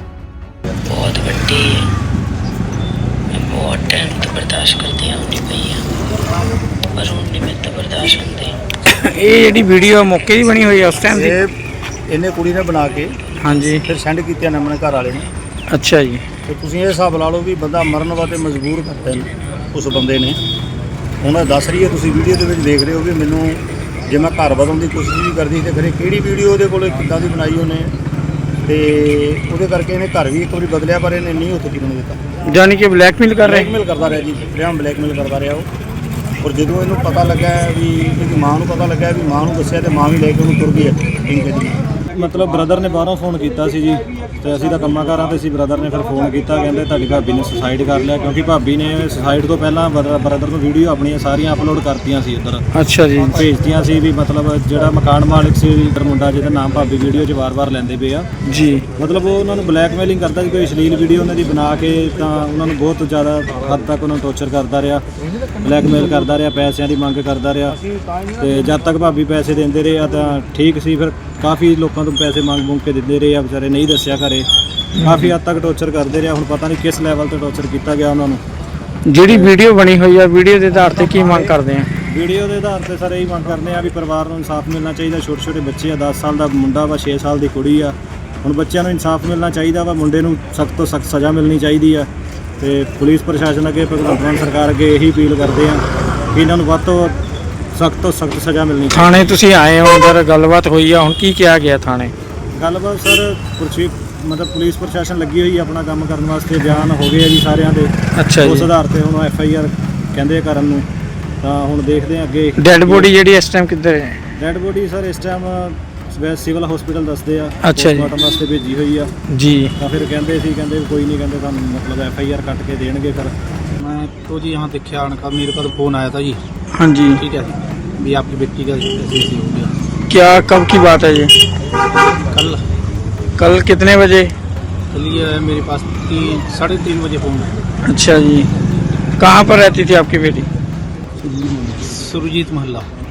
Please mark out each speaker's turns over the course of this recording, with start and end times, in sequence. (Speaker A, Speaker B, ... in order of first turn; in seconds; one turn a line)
Speaker A: 0.9-1.8
Speaker B: 3.4-4.6
Speaker A: 3.4-5.8
Speaker A: 7.0-8.5
Speaker B: 8.8-11.4
Speaker C: 11.1-11.5
Speaker C: 12.1-13.2
Speaker B: 13.4-13.9
Speaker C: 13.8-15.3
Speaker B: 15.7-16.2
Speaker C: 16.5-20.4
Speaker C: 21.2-27.9
Speaker C: 28.6-32.2
Speaker B: 32.5-33.7
Speaker C: 33.4-35.7
Speaker C: 36.4-41.8
Speaker D: 42.1-52.6
Speaker B: 52.7-53.3
Speaker D: 53.3-58.3
Speaker B: 58.4-58.9
Speaker D: 58.9-65.0
Speaker D: 65.6-67.8
Speaker D: 68.4-74.5
Speaker B: 75.0-75.3
Speaker D: 75.0-78.4
Speaker B: 79.0-81.9
Speaker D: 79.3-79.5
Speaker D: 82.1-92.1
Speaker D: 92.6-97.2
Speaker D: 97.7-99.3
Speaker B: 98.9-102.1
Speaker D: 102.6-110.8
Speaker B: 108.2-108.7
Speaker D: 111.4-113.1
Speaker B: 112.6-114.2
Speaker D: 114.3-119.1
Speaker B: 117.6-118.1
Speaker B: 119.3-119.7
Speaker D: 119.8-123.3
Speaker E: 123.8-126.4
Speaker B: 126.7-127.2
Speaker E: 127.2-129.7
Speaker B: 130.1-131.3
Speaker E: 132.1-132.6
Speaker B: 133.4-134.3
Speaker E: 134.9-137.5
Speaker B: 137.8-138.5
Speaker B: 139.2-140.5
Speaker E: 141.2-142.9